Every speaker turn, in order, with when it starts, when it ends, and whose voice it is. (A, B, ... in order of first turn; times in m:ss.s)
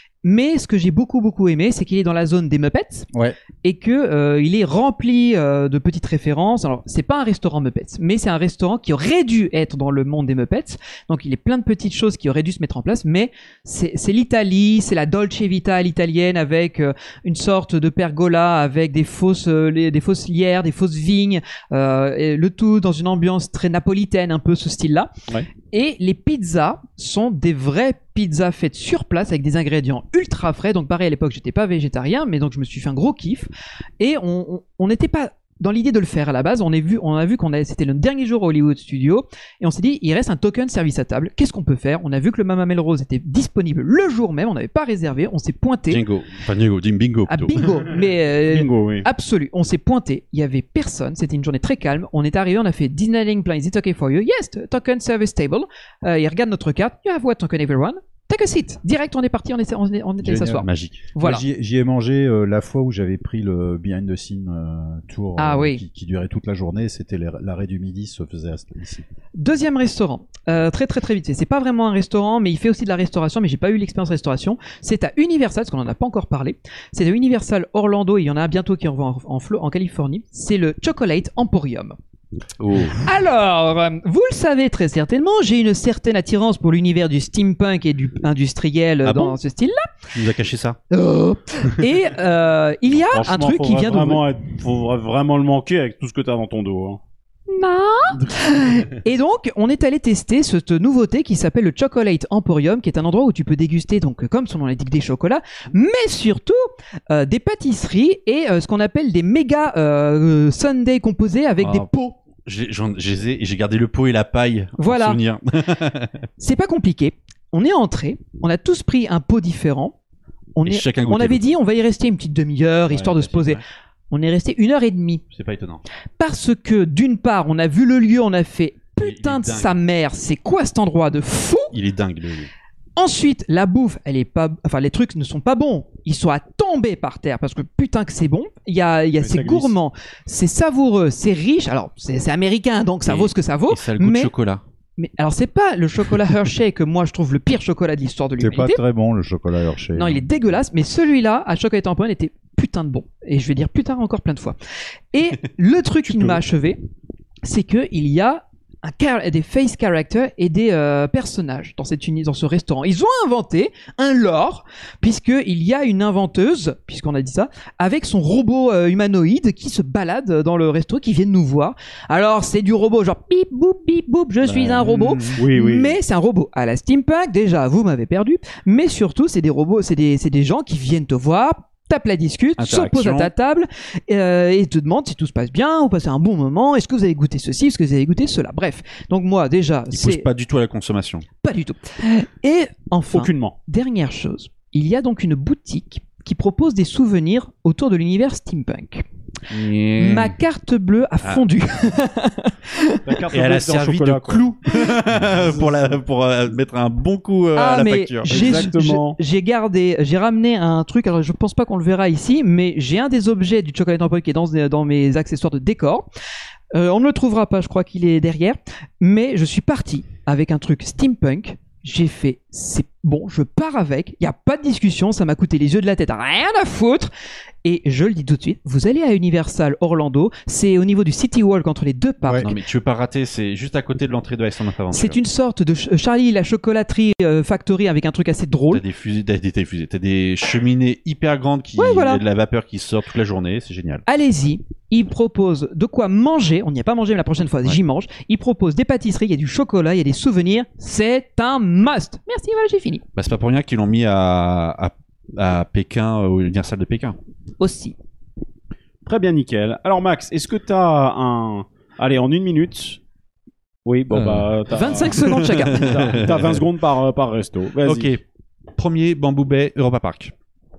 0:00.2-0:03.1 A
0:03.6-0:25.1 A
0:25.7-0:33.5 A
0:34.0-0:46.0 A
0:45.9-0:47.6 B
0:47.3-1:01.4 A
0:48.5-0:49.1 C
1:00.2-1:09.0 D
1:00.6-1:01.0 B
1:05.4-1:05.8 A
1:09.4-1:22.0 A
1:22.6-1:23.0 B
1:23.0-1:29.8 A
1:29.0-1:29.4 B
1:30.1-1:30.8 B
1:30.9-1:34.2 A
1:33.1-1:37.0 C
1:37.5-1:46.6 A
1:38.1-1:38.4 C
1:47.1-1:52.2 A
1:51.6-1:51.9 B
1:52.4-1:56.1 B
1:54.8-1:55.2 A
1:56.4-1:59.9 A
2:00.6-2:05.2 A
2:00.6-2:01.4 B
2:02.9-2:03.6 B
2:05.3-2:05.8 B
2:06.2-2:11.7 A
2:09.0-2:09.8 B
2:11.7-2:12.5 B
2:13.0-2:24.3 A
2:19.2-2:19.7 C
2:23.0-2:24.6 B
2:25.0-2:28.8 A
2:28.4-2:30.3 D
2:29.9-2:34.6 A
2:35.1-2:36.8 A
2:37.4-3:10.3 A
2:54.8-2:55.4 D
2:55.4-2:56.0 C
3:02.6-3:03.3 B
3:09.9-3:11.3 B
3:11.4-3:19.0 A
3:13.1-3:13.6 C
3:19.5-3:20.4 B
3:20.0-3:23.0 A
3:23.1-3:24.5 C
3:23.3-3:28.6 B
3:27.6-3:36.1 A
3:28.3-3:29.2 C
3:36.7-3:47.1 A
3:47.6-3:52.5 A
3:52.4-3:55.2 B
3:54.9-3:58.8 A
3:58.7-4:04.0 B
4:01.8-4:02.2 A
4:04.1-4:13.0 A
4:13.2-4:17.2 B
4:17.6-4:18.0 A
4:19.0-4:23.0 C
4:23.8-4:28.2 C
4:24.1-4:24.5 B
4:24.7-4:26.0 A
4:25.2-4:26.6 B
4:27.8-4:28.2 B
4:28.8-4:30.3 B